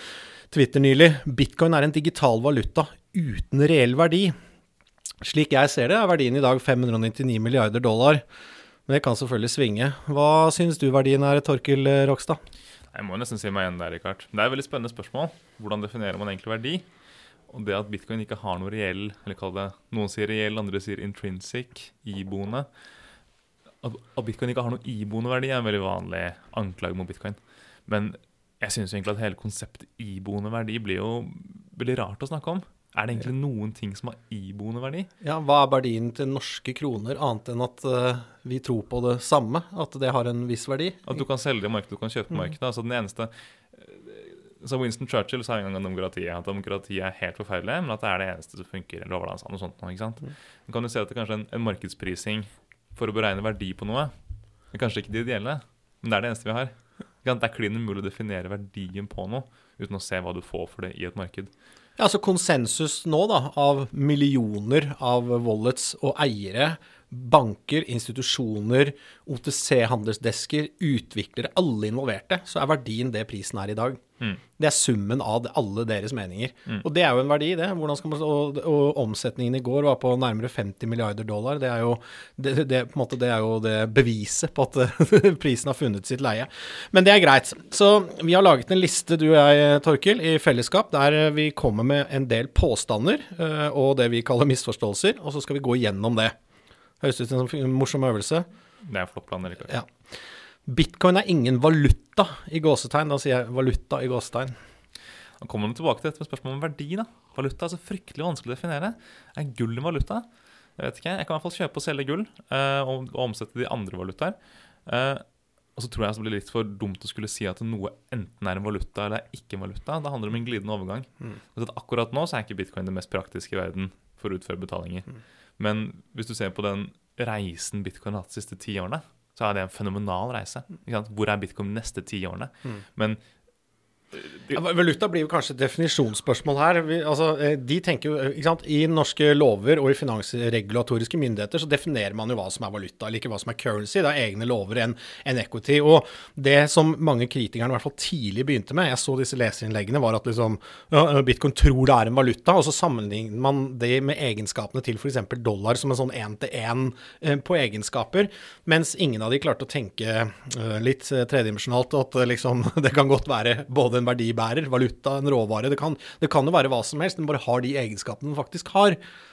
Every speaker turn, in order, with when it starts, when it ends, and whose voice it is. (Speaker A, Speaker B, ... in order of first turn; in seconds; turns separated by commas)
Speaker A: 0.5-4.3, Speaker A: 5.2-8.2, Speaker A: 8.9-12.4, Speaker B: 12.9-16.9, Speaker B: 17.5-22.7, Speaker B: 23.8-35.1, Speaker A: 35.2-41.2, Speaker B: 41.0-54.1, Speaker B: 54.7-61.5, Speaker A: 62.0-74.0, Speaker A: 74.6-96.3, Speaker A: 97.0-98.5, Speaker B: 98.8-99.8, Speaker A: 100.7-104.5, Speaker B: 105.4-110.2, Speaker B: 110.8-115.2, Speaker B: 115.8-133.2, Speaker B: 134.1-134.6, Speaker A: 134.5-169.0